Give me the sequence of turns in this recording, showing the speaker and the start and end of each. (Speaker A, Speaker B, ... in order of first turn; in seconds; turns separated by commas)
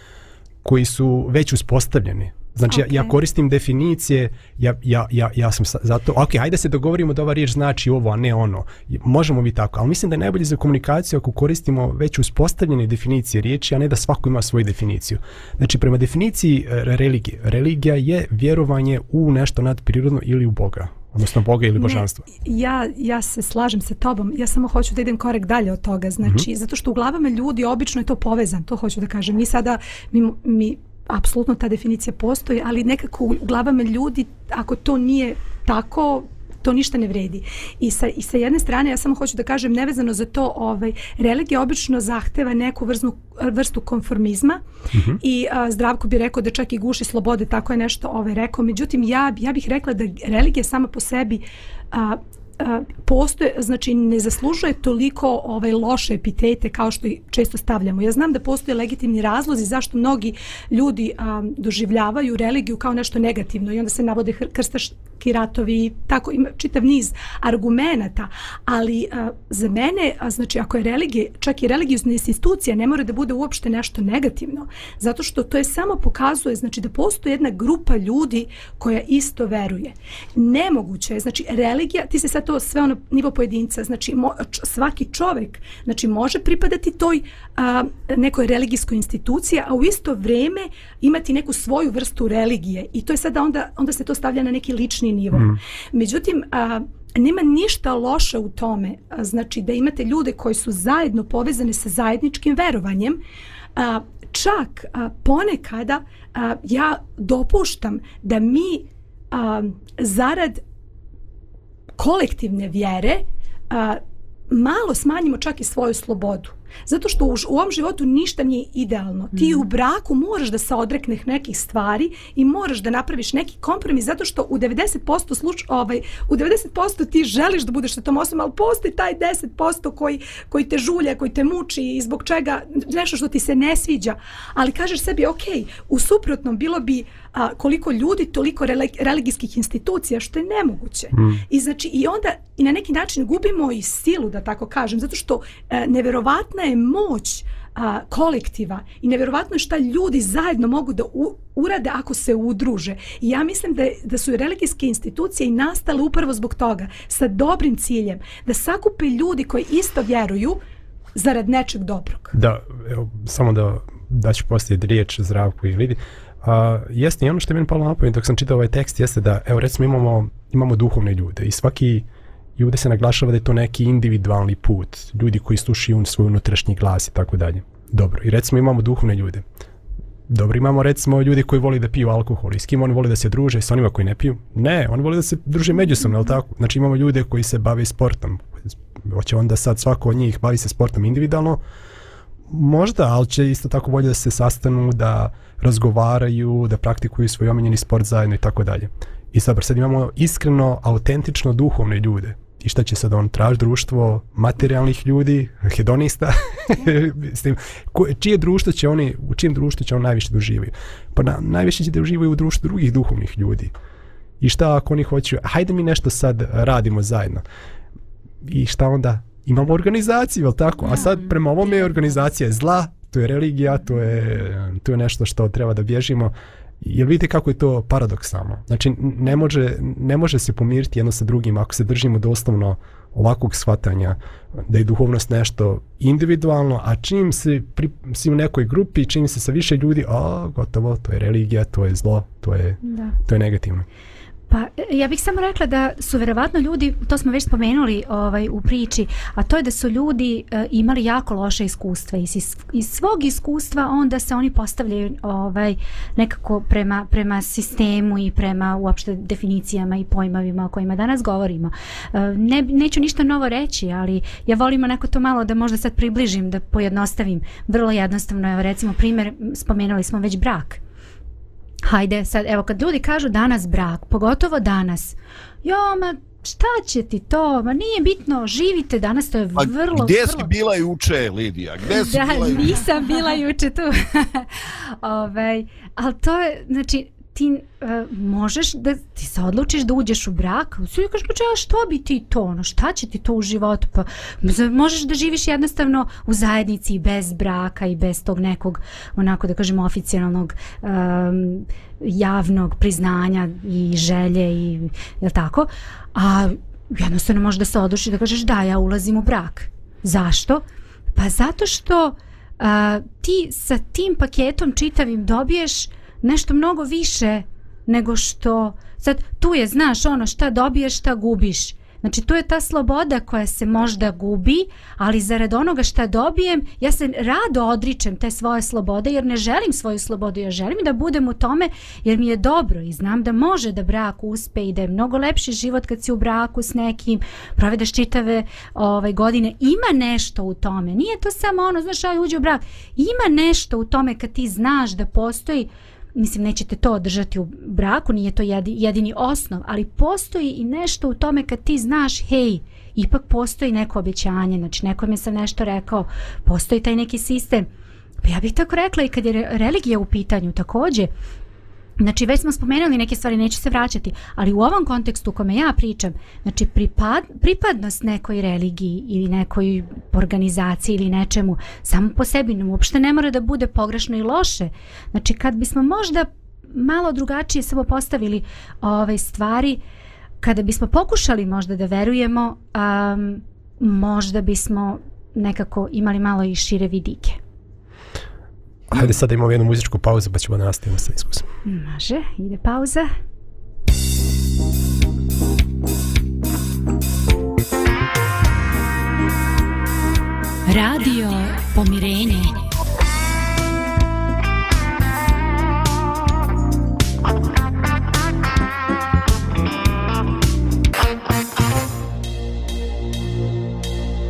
Speaker A: 0.6-22.2, Speaker B: 2.7-3.1, Speaker B: 21.8-44.6, Speaker A: 44.9-45.2, Speaker B: 45.2-103.2, Speaker A: 95.3-95.6, Speaker B: 103.8-110.6, Speaker B: 112.0-160.6, Speaker C: 119.4-119.6, Speaker A: 141.1-141.4, Speaker B: 161.1-162.3, Speaker A: 162.3-179.4, Speaker A: 180.3-191.6, Speaker A: 192.5-213.7, Speaker A: 214.4-217.4, Speaker A: 218.4-243.8, Speaker C: 220.9-221.2, Speaker C: 242.8-243.2, Speaker C: 244.5-270.8, Speaker C: 271.8-280.5, Speaker D: 279.6-282.8, Speaker C: 281.9-357.7, Speaker C: 358.2-361.1, Speaker C: 362.0-379.8, Speaker C: 380.4-387.4, Speaker A: 388.9-391.4, Speaker C: 391.6-393.1, Speaker C: 400.7-402.6